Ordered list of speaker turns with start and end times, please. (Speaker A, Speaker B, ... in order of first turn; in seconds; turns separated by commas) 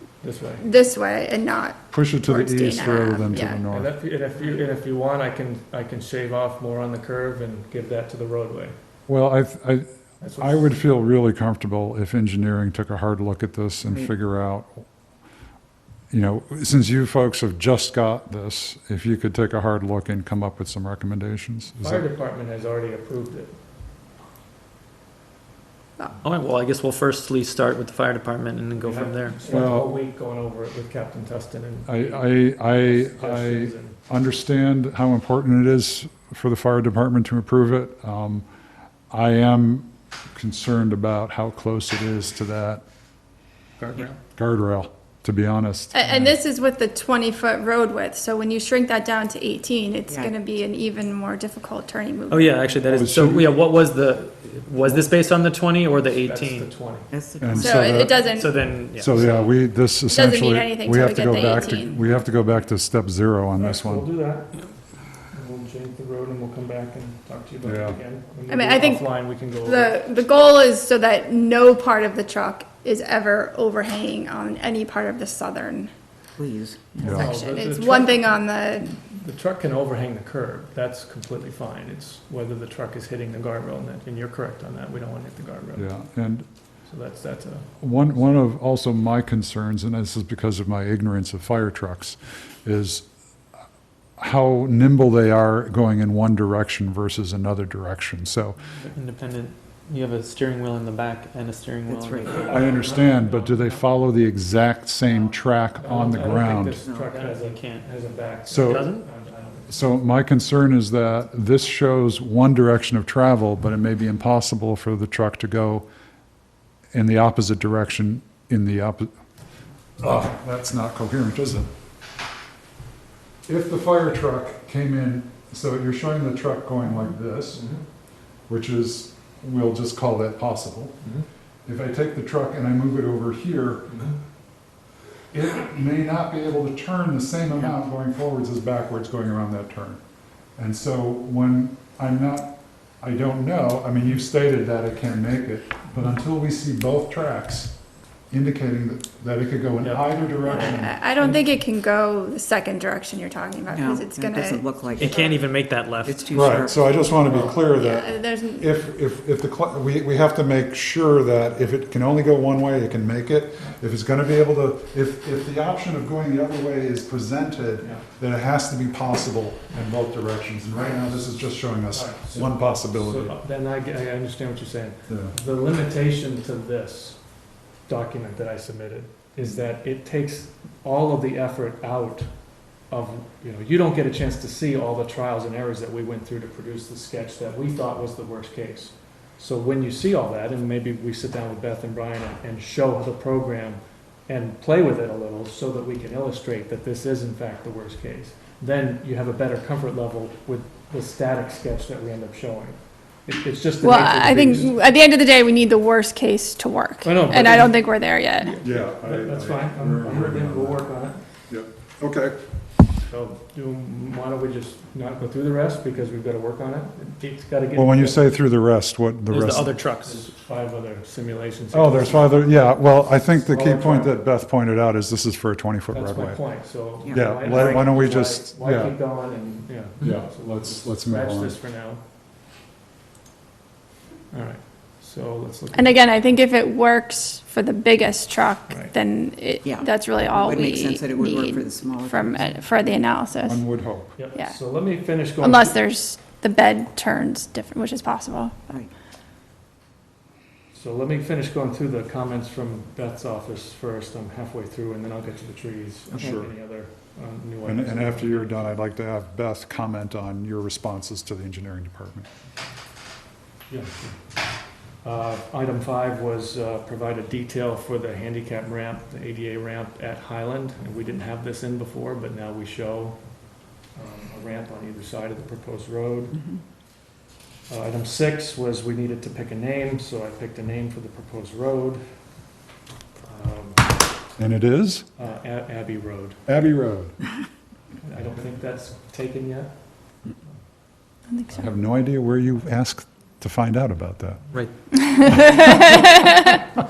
Speaker A: 0.2-0.7, Speaker B: 0.6-3.6, Speaker C: 1.9-3.9, Speaker A: 3.7-8.7, Speaker C: 9.1-9.9, Speaker A: 10.2-10.7, Speaker C: 10.4-14.8, Speaker D: 13.9-14.1, Speaker C: 16.1-22.0, Speaker A: 21.8-23.6, Speaker E: 26.2-29.4, Speaker A: 28.8-34.0, Speaker C: 29.5-29.9, Speaker C: 31.9-38.5, Speaker C: 39.1-42.8, Speaker E: 43.8-44.1, Speaker A: 43.8-44.1, Speaker C: 44.4-46.3, Speaker B: 45.9-52.7, Speaker D: 50.1-50.4, Speaker E: 52.3-56.7, Speaker C: 52.9-53.5, Speaker A: 54.8-55.1, Speaker A: 55.9-57.1, Speaker D: 57.1-57.8, Speaker C: 57.4-64.1, Speaker B: 57.6-58.7, Speaker E: 57.8-59.5, Speaker A: 59.1-59.5, Speaker B: 60.1-62.0, Speaker A: 63.6-64.6, Speaker A: 65.3-70.0, Speaker C: 67.6-68.0, Speaker B: 68.5-75.9, Speaker D: 76.4-77.4, Speaker A: 77.0-85.9, Speaker C: 77.0-77.3, Speaker B: 77.1-78.9, Speaker C: 85.8-86.5, Speaker A: 86.9-87.7, Speaker C: 87.8-93.1, Speaker C: 94.2-98.7, Speaker E: 98.8-102.7, Speaker D: 101.9-102.7, Speaker A: 102.3-103.9, Speaker C: 102.5-106.8, Speaker A: 105.1-109.8, Speaker D: 106.8-107.1, Speaker E: 107.0-107.9, Speaker C: 108.5-109.0, Speaker E: 108.5-109.0, Speaker C: 109.7-115.9, Speaker C: 116.9-119.1, Speaker C: 120.0-121.7, Speaker C: 123.5-127.7, Speaker A: 127.6-127.8, Speaker C: 128.5-131.0, Speaker C: 131.7-134.1, Speaker A: 133.9-134.1, Speaker C: 135.3-140.0, Speaker C: 140.6-151.0, Speaker A: 149.8-151.4, Speaker B: 150.4-155.4, Speaker D: 153.7-155.2, Speaker E: 155.0-156.7, Speaker D: 156.0-157.1, Speaker C: 156.3-173.3, Speaker B: 157.4-158.7, Speaker A: 171.9-204.8, Speaker C: 175.1-175.3, Speaker B: 203.8-208.5, Speaker A: 207.0-211.2, Speaker C: 208.6-210.9, Speaker C: 211.5-212.4, Speaker A: 213.1-218.3, Speaker C: 217.8-219.7, Speaker E: 219.3-220.2, Speaker A: 220.0-222.7, Speaker C: 221.7-226.4, Speaker A: 223.2-224.2, Speaker A: 225.9-232.0, Speaker D: 227.0-227.8, Speaker C: 227.1-229.0, Speaker C: 230.0-231.6, Speaker A: 234.3-236.0, Speaker B: 235.7-243.7, Speaker A: 238.7-238.9, Speaker D: 239.6-242.6, Speaker C: 243.4-244.1, Speaker A: 244.2-245.8, Speaker B: 245.4-248.7, Speaker A: 250.7-258.8, Speaker C: 256.1-256.5, Speaker D: 256.1-256.4, Speaker C: 257.6-262.3, Speaker A: 263.7-264.2, Speaker A: 265.0-273.3, Speaker A: 273.9-276.5, Speaker A: 277.7-282.0, Speaker A: 283.2-283.9, Speaker C: 284.4-285.1, Speaker A: 285.2-286.4, Speaker C: 286.5-287.2, Speaker A: 288.0-290.2, Speaker B: 291.3-291.7, Speaker C: 291.5-294.4, Speaker B: 295.2-296.6, Speaker E: 295.3-295.6